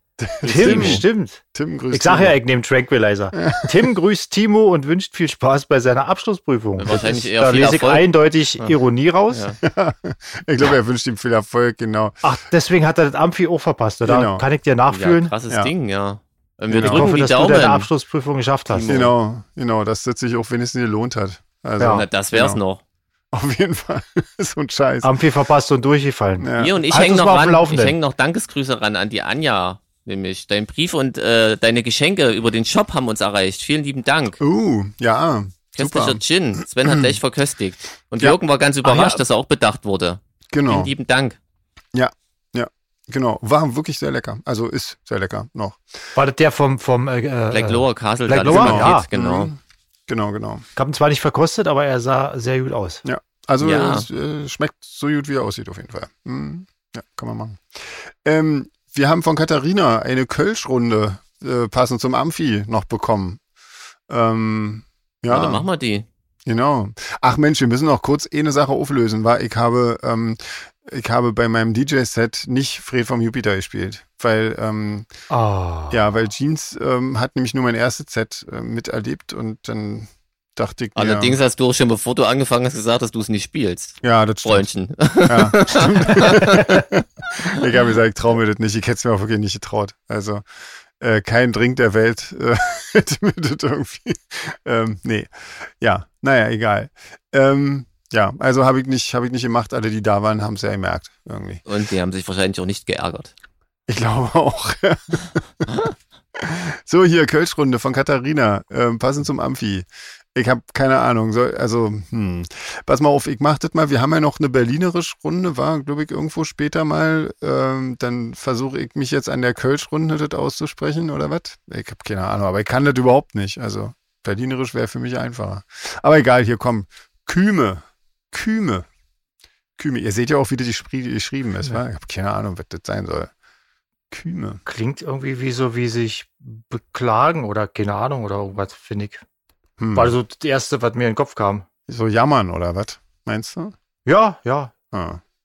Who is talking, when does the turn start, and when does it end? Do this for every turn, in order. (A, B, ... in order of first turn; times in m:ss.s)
0:00.2-0:02.4 A
0:00.4-0:01.4 B
0:00.4-0:01.0 C
0:01.9-0:09.5 B
0:03.4-0:03.8 A
0:06.8-0:08.1 C
0:09.3-0:09.6 C
0:09.6-0:12.2 A
0:12.2-0:15.3 B
0:14.0-0:14.4 A
0:14.9-0:17.9 C
0:16.7-0:17.1 A
0:16.8-0:19.0 B
0:18.7-0:19.1 C
0:18.9-0:22.6 A
0:21.8-0:22.0 B
0:21.8-0:22.8 C
0:23.3-0:25.1 A
0:25.0-0:28.0 B
0:26.4-0:26.8 A
0:26.6-0:34.4 C
0:34.4-0:36.2 A
0:35.8-0:41.4 C
0:36.8-0:37.2 A
0:38.8-0:39.2 B
0:40.5-0:40.9 A
0:41.9-0:45.8 A
0:46.2-0:49.1 B
0:47.5-0:49.5 C
0:48.4-0:50.6 A
0:50.8-0:53.0 B
0:53.0-1:03.4 A
0:53.6-0:54.1 C
1:04.1-1:05.7 A
1:05.3-1:06.1 C
1:06.5-1:15.1 A
1:15.3-1:16.0 B
1:15.9-1:21.4 A
1:21.0-1:26.9 C
1:24.0-1:24.7 A
1:25.3-1:30.4 A
1:31.0-1:41.6 A
1:41.7-1:43.3 C
1:43.9-1:45.8 A
1:46.4-2:08.9 A
2:09.8-2:13.3 A
2:14.1-2:14.6 A
2:14.6-2:19.2 B
2:19.8-2:20.2 A
2:19.9-2:21.7 B
2:21.9-2:23.7 A
2:24.1-2:24.7 B
2:24.9-2:25.2 A